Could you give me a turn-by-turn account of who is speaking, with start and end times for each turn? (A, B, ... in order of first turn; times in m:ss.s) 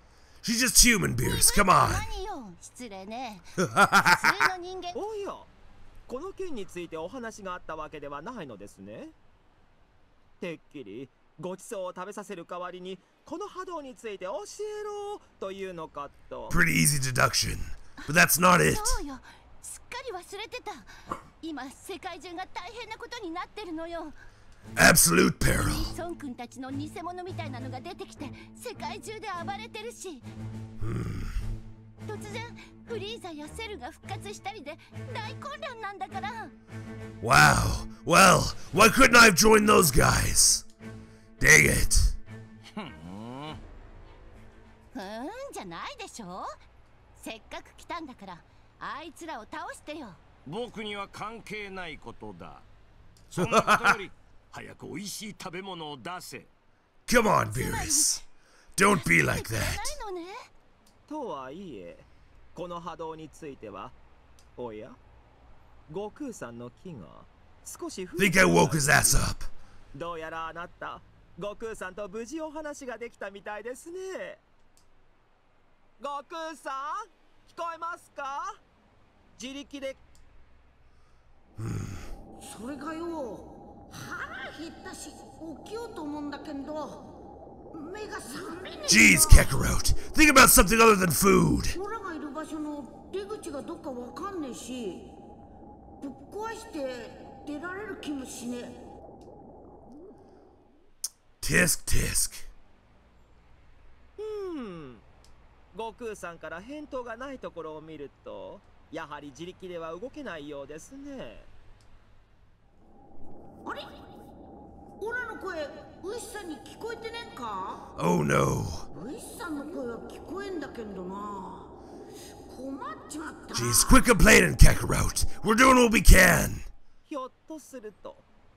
0:00.4-0:02.1 A
0:01.2-0:05.0 B
0:03.7-0:04.4 A
0:05.0-0:05.5 C
0:06.1-0:09.2 C
0:10.4-0:16.6 C
0:16.5-0:19.0 A
0:18.6-0:20.9 B
0:21.4-0:24.2 B
0:24.8-0:25.9 A
0:25.5-0:30.3 B
0:30.8-0:31.4 A
0:32.0-0:36.5 B
0:37.2-0:40.7 A
0:41.4-0:42.2 A
0:42.8-0:43.6 D
0:44.9-0:46.5 B
0:47.2-0:50.2 B
0:50.4-0:52.7 D
0:53.3-0:56.5 D
0:53.4-0:54.0 A
0:57.1-0:58.2 A
0:57.5-0:58.2 B
0:58.8-1:00.0 A
0:58.9-1:00.5 B
1:01.1-1:04.0 C
1:04.6-1:05.0 C
1:05.9-1:09.3 C
1:08.2-1:09.5 A
1:09.9-1:14.4 C
1:16.0-1:18.6 C
1:19.4-1:20.0 C
1:21.6-1:22.1 A
1:22.4-1:27.1 E
1:27.7-1:29.4 E
1:28.9-1:31.8 A
1:31.7-1:35.2 E
1:36.0-1:38.8 E
1:41.4-1:42.5 A
1:44.2-1:45.1 C
1:45.7-1:51.5 C
1:55.0-1:57.9 E
1:58.0-1:58.9 A
1:58.9-2:01.7 E
2:02.5-2:04.0 E
2:03.5-2:06.7 A
2:07.1-2:08.3 C